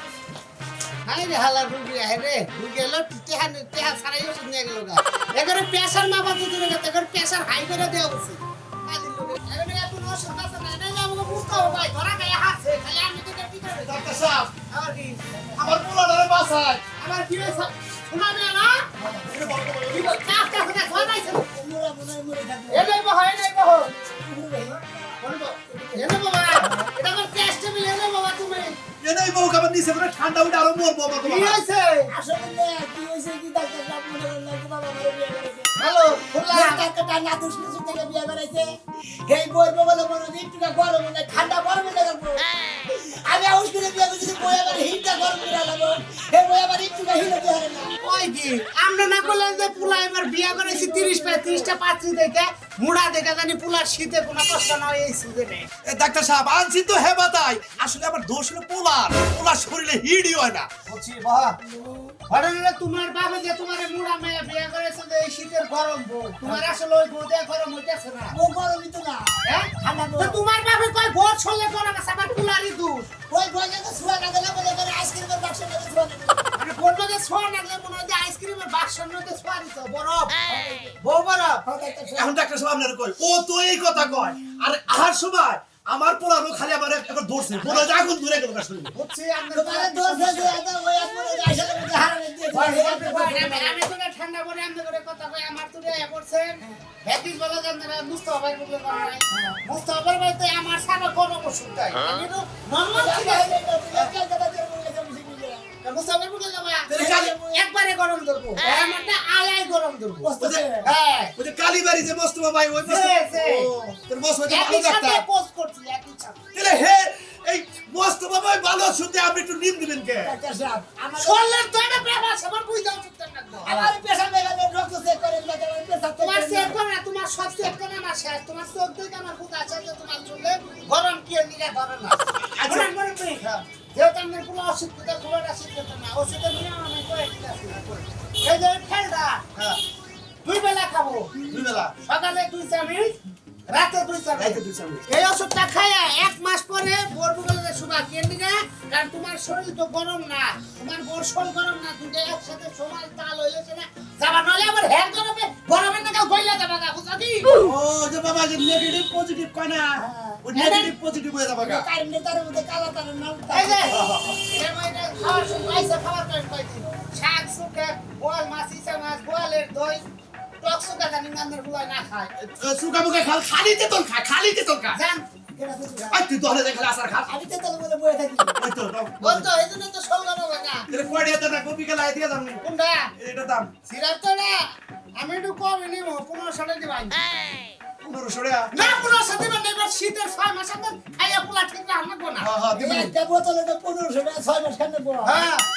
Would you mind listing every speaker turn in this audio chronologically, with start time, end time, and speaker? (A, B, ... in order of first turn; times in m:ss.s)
0:01.1-0:15.8 A
0:13.8-0:14.5 B
0:15.6-0:16.8 B
0:17.0-0:18.9 A
0:19.0-0:20.4 B
0:19.9-0:21.4 A
0:20.8-0:22.9 C
0:22.7-0:23.9 A
0:23.9-0:25.2 C
0:25.2-0:28.8 A
0:29.0-0:31.6 B
0:31.2-0:32.1 A
0:32.1-0:35.7 C
0:35.8-0:36.8 A
0:36.5-0:38.7 C
0:39.2-0:47.9 C
0:48.0-0:55.7 A
0:55.8-1:00.7 B
1:00.9-1:01.6 A
1:01.7-1:02.2 C
1:02.3-1:08.4 A
1:08.3-1:10.4 C
1:09.5-1:13.1 A
1:13.3-1:16.4 C
1:16.6-1:21.6 A
1:21.6-1:22.3 C
1:22.1-1:28.9 B
1:27.6-1:27.9 A
1:28.9-1:30.6 A
1:29.5-1:33.8 C
1:32.5-1:44.1 A
1:42.9-1:45.7 C
1:45.8-1:51.3 A
1:46.9-1:47.4 B
1:50.2-1:50.9 C
1:50.4-1:50.7 B
1:51.4-1:55.2 B
1:52.8-1:53.7 A
1:54.5-1:56.4 A
1:56.5-2:00.3 B
2:00.2-2:01.5 C
2:01.2-2:03.8 A
2:03.6-2:06.8 C
2:06.2-2:19.8 A
2:12.6-2:12.9 B
2:20.4-2:23.2 A
2:23.7-2:37.6 A
2:24.4-2:25.0 B
2:37.6-2:41.8 B
2:40.0-2:40.9 C
2:40.5-2:40.9 A
2:41.6-2:44.0 C
2:43.5-2:50.0 A
2:43.9-2:44.4 B
2:50.6-2:52.3 A
2:52.4-2:55.0 B
2:54.9-2:55.2 A
2:55.6-2:56.1 C
2:56.0-2:56.2 A
2:56.1-2:57.3 B
2:57.3-2:58.6 C
2:58.6-2:59.5 B
2:59.2-3:00.9 A
3:00.9-3:02.6 B
3:02.6-3:03.1 A
3:03.2-3:03.7 B
3:03.9-3:04.6 A
3:05.2-3:07.2 A
3:08.0-3:08.7 B
3:08.7-3:12.6 A
3:12.4-3:13.1 B
3:12.7-3:15.5 C
3:15.2-3:15.6 A